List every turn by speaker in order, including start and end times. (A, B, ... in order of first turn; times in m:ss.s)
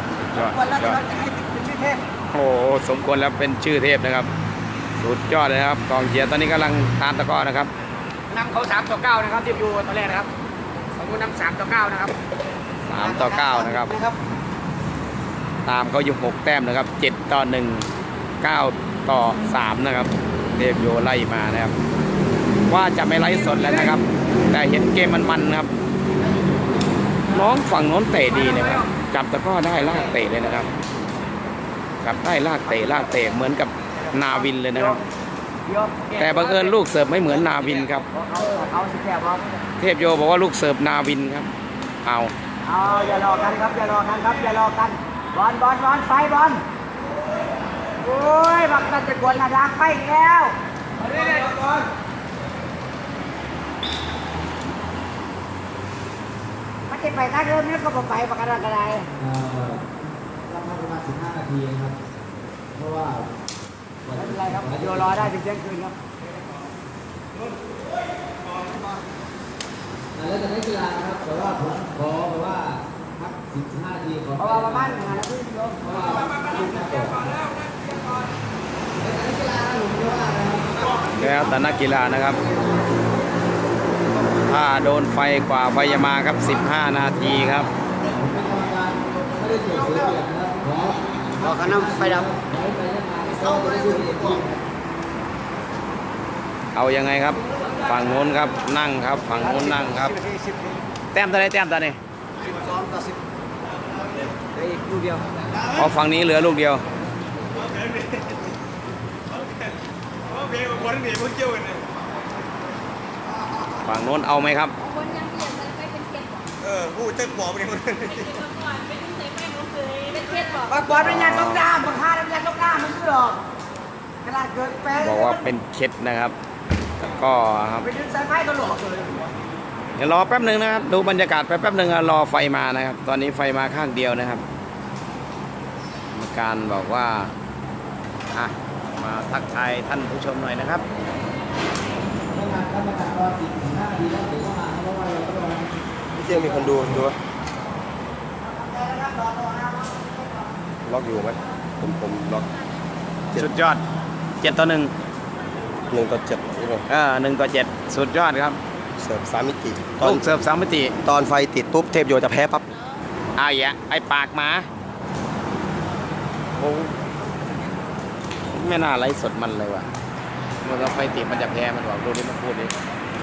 0:00.2-0:01.0 A
0:00.4-0:02.0 B
0:02.3-0:04.3 A
0:05.0-0:07.7 A
0:08.3-0:10.3 B
0:11.0-0:12.2 B
0:12.9-0:13.9 A
0:13.0-0:14.2 B
0:15.7-0:17.9 A
0:18.4-0:21.8 A
0:22.7-0:25.7 A
0:27.3-0:30.7 A
0:32.0-0:35.0 A
0:34.7-0:35.0 B
0:35.6-0:36.7 B
0:36.2-0:38.1 A
0:37.5-0:39.6 B
0:39.8-0:41.5 A
0:42.0-0:42.3 A
0:42.6-0:46.6 B
0:48.0-0:51.8 B
0:56.9-0:59.1 B
0:59.2-0:59.9 C
1:00.5-1:02.0 C
1:02.7-1:03.3 C
1:04.0-1:05.3 C
1:04.2-1:06.0 B
1:10.2-1:15.2 C
1:14.4-1:16.3 B
1:15.8-1:17.2 C
1:19.0-1:21.0 C
1:21.2-1:22.4 A
1:24.5-1:27.7 A
1:27.1-1:34.6 C
1:31.4-1:32.3 B
1:36.7-1:40.2 A
1:41.1-1:42.0 A
1:45.8-1:46.8 A
1:50.7-1:51.8 D
1:53.8-1:54.8 A
1:54.8-1:56.5 E
1:56.6-1:58.1 D
1:58.0-2:00.9 E
2:00.7-2:03.4 B
2:00.9-2:01.7 A
2:04.2-2:05.4 B
2:05.0-2:06.4 A
2:07.0-2:07.9 A
2:07.8-2:09.3 B
2:10.0-2:14.4 A
2:16.1-2:17.3 A
2:18.3-2:20.8 A
2:22.3-2:27.0 C
2:26.2-2:27.2 D
2:28.4-2:30.5 B
2:30.8-2:32.5 D
2:33.4-2:33.8 A
2:34.4-2:34.9 A
2:35.9-2:36.8 D
2:36.9-2:38.6 A
2:39.0-2:40.3 D
2:40.0-2:41.0 A
2:41.0-2:42.7 D
2:43.4-2:44.7 A
2:46.6-2:46.9 A
2:48.5-2:49.9 A
2:50.6-2:52.7 A